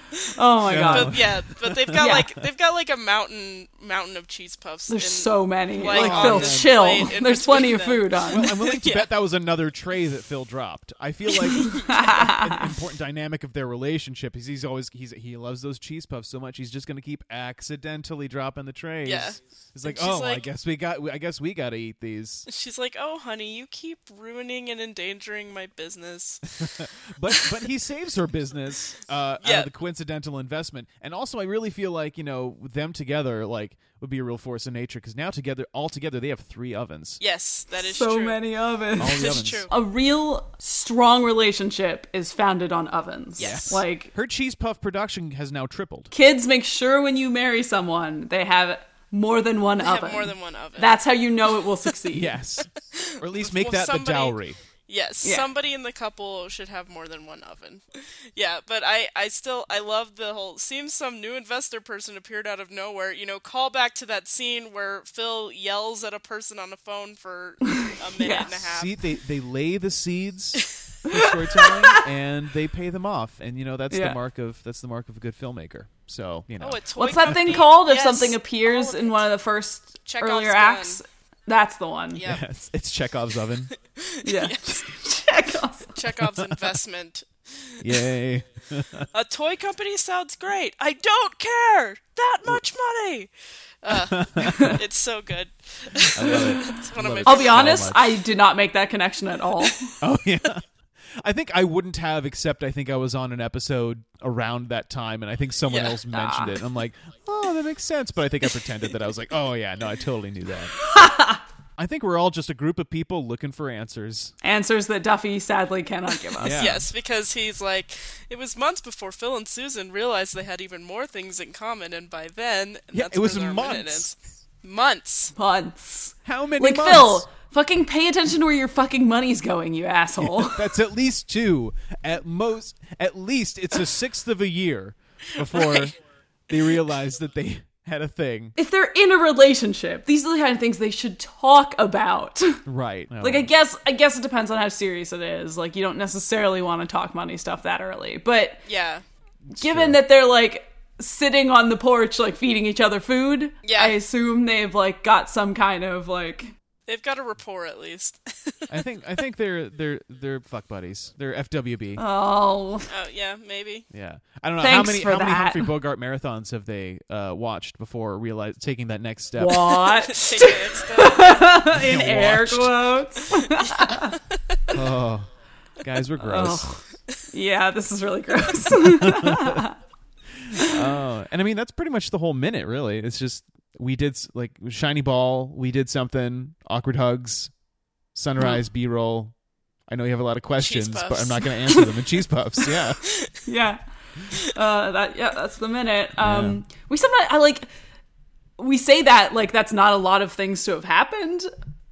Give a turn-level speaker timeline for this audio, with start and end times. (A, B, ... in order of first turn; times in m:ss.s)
0:00.1-0:09.1 A
0:00.3-0:01.2 B
0:00.6-0:02.4 C
0:02.0-0:02.3 B
0:04.9-0:08.5 B
0:05.9-0:06.8 C
0:08.3-0:22.4 C
0:11.5-0:12.1 A
0:11.6-0:12.6 B
0:19.0-0:20.4 A
0:22.5-0:26.5 A
0:26.5-0:37.2 C
0:29.4-0:29.7 A
0:37.2-0:38.4 A
0:37.8-0:44.1 B
0:39.0-0:39.7 C
0:39.0-0:39.7 A
0:43.4-0:43.8 A
0:43.4-0:46.1 C
0:46.1-0:52.4 B
0:49.8-0:51.0 A
0:52.1-0:54.6 C
0:52.9-1:08.9 A
0:55.2-0:55.5 B
1:07.7-1:08.6 B
1:08.6-1:17.6 C
1:11.1-1:12.0 B
1:13.9-1:14.2 B
1:16.6-1:19.2 A
1:17.0-1:22.2 B
1:20.1-1:21.0 A
1:22.2-1:22.4 A
1:22.2-1:23.7 C
1:23.9-1:24.8 A
1:24.2-1:25.9 B
1:25.9-1:28.0 A
1:26.2-1:26.7 C
1:27.8-1:29.0 C
1:29.1-1:33.3 A
1:33.8-1:38.0 A
1:33.9-1:34.8 C
1:34.5-1:34.7 B
1:36.1-1:38.1 C
1:36.2-1:39.9 B
1:40.0-1:40.6 C
1:41.2-1:50.7 C
1:45.6-1:46.0 A
1:46.1-1:46.6 B
1:50.8-1:51.4 B
1:51.8-1:54.3 C
1:54.4-1:56.6 B
1:56.4-1:56.9 C
1:56.5-2:05.3 A
2:02.9-2:04.1 C
2:05.4-2:10.7 B
2:06.2-2:07.2 C
2:10.2-2:16.0 C
2:15.4-2:15.9 A
2:16.5-2:18.5 C
2:18.6-2:22.6 B
2:22.6-2:23.5 C
2:23.2-2:28.6 B
2:28.7-2:29.0 A
2:29.5-2:30.0 C
2:29.6-2:36.5 B
2:33.6-2:34.0 A
2:36.9-2:38.7 A
2:38.7-2:42.0 C
2:42.0-2:42.9 B
2:42.9-2:43.8 A
2:43.9-2:49.9 C
2:44.6-2:45.7 B
2:49.4-2:54.1 B
2:50.1-2:51.6 A
2:51.7-2:52.9 C
2:53.5-2:54.7 A
2:54.7-2:55.3 C
2:55.8-2:56.7 C
2:56.2-2:59.7 B
2:58.8-2:59.6 C
3:00.4-3:07.5 C
3:08.1-3:09.3 C
3:09.9-3:13.0 C
3:10.6-3:11.6 A
3:13.4-3:17.7 B
3:16.2-3:16.6 C
3:18.6-3:21.5 B